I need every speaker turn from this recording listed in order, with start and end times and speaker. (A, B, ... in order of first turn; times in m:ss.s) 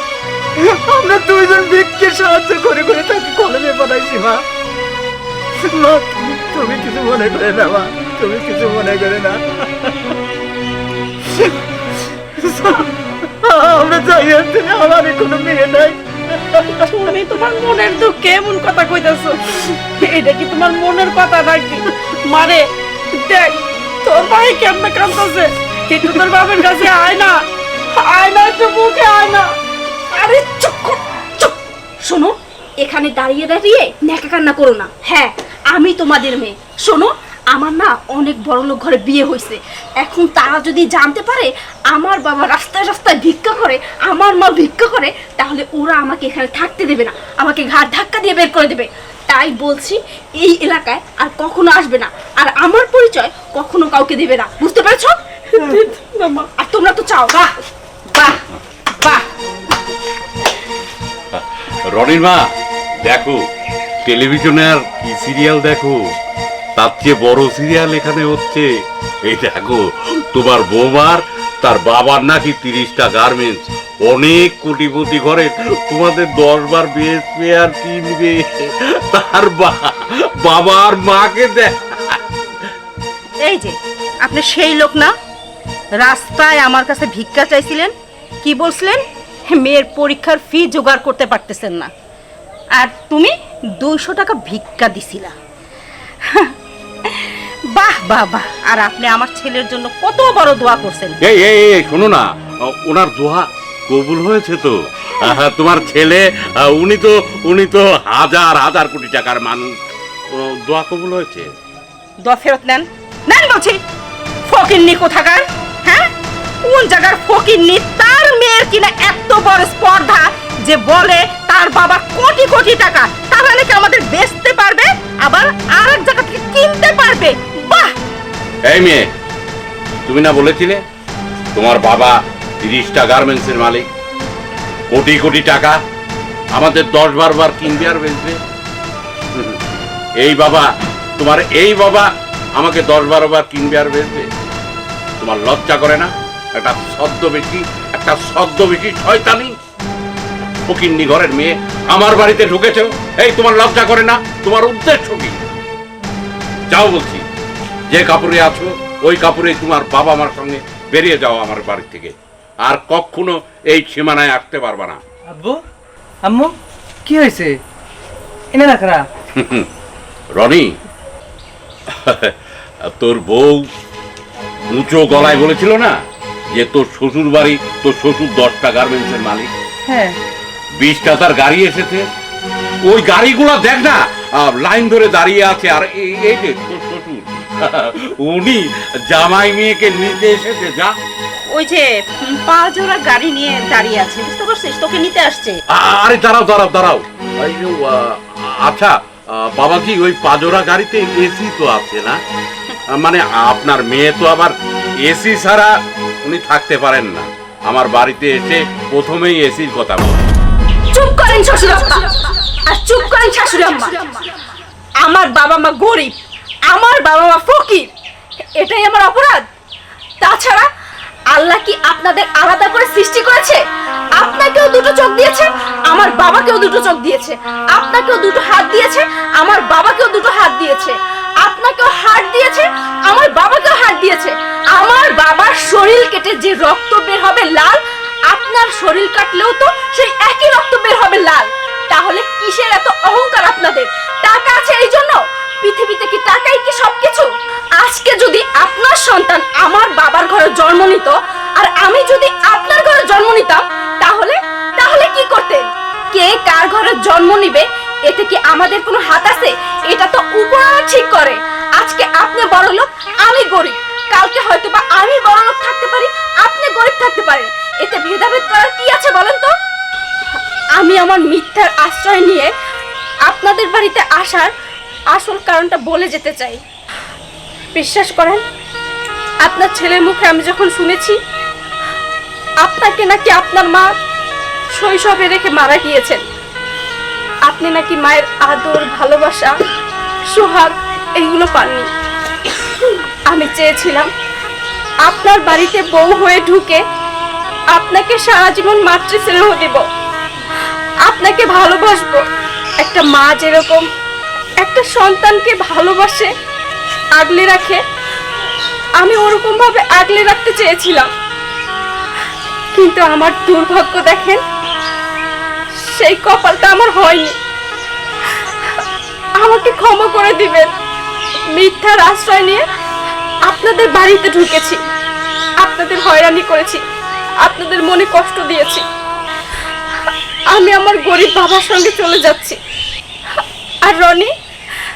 0:00.6-0:04.4 A
0:05.6-0:10.1 A
0:11.2-0:11.6 A
0:12.3-0:17.1 A
0:16.8-0:29.5 B
0:30.1-0:55.2 C
0:55.5-0:56.5 B
0:56.6-0:57.5 C
0:58.2-0:58.4 C
1:01.3-1:02.5 D
1:03.0-1:03.4 D
1:04.0-1:06.0 D
1:06.8-1:08.7 D
1:09.2-1:22.2 D
1:23.4-1:25.1 E
1:26.0-1:31.9 E
1:32.8-1:35.4 E
1:36.2-1:36.5 E
1:37.0-1:41.2 E
1:41.2-1:49.8 D
1:50.3-1:51.5 D
1:52.2-1:53.8 E
1:54.5-1:56.1 E
1:56.6-2:07.9 E
2:08.7-2:09.1 D
2:10.1-2:10.8 D
2:11.5-2:13.9 D
2:14.9-2:15.8 D
2:16.5-2:18.4 D
2:19.3-2:19.6 D
2:20.2-2:24.3 D
2:25.2-2:29.6 D
2:30.7-2:35.4 D
2:36.7-2:37.3 D
2:37.9-2:45.0 D
2:45.3-2:45.6 F
2:46.2-2:46.5 F
2:47.1-2:47.6 F
2:48.5-2:49.1 F
2:49.4-2:49.7 D
2:50.3-2:50.8 D
2:51.9-2:53.7 D
2:54.7-2:56.0 D
2:56.5-2:59.5 D
2:59.9-3:00.2 F
3:00.8-3:02.1 D
3:02.8-3:11.0 D
3:11.5-3:15.6 E
3:15.7-3:22.2 D
3:22.9-3:30.2 D
3:30.9-3:34.2 C
3:35.0-3:36.1 C
3:36.7-3:37.9 C
3:38.6-3:39.4 C
3:40.2-3:40.6 C
3:41.3-3:43.6 C
3:44.2-4:29.5 C
4:30.8-4:32.5 C
4:33.3-4:34.5 C
4:35.1-4:36.6 C
4:37.7-4:38.4 C
4:39.4-4:41.2 C
4:42.6-4:44.0 C
4:44.7-4:46.2 C
4:47.5-4:49.6 C
4:50.3-4:51.9 C
4:53.3-4:54.1 C
4:55.0-4:56.8 C
4:57.7-4:59.8 C
5:01.0-5:02.2 C
5:02.8-5:03.9 C
5:04.6-5:06.3 C
5:07.2-5:07.8 C
5:09.0-5:11.1 C
5:12.7-5:14.4 C
5:15.9-5:17.4 C
5:18.3-5:18.8 C
5:19.4-5:20.7 C
5:21.5-5:22.6 C
5:23.4-5:24.8 C
5:25.6-5:26.8 C
5:27.4-5:28.8 C
5:30.5-5:32.6 C
5:33.4-5:34.3 C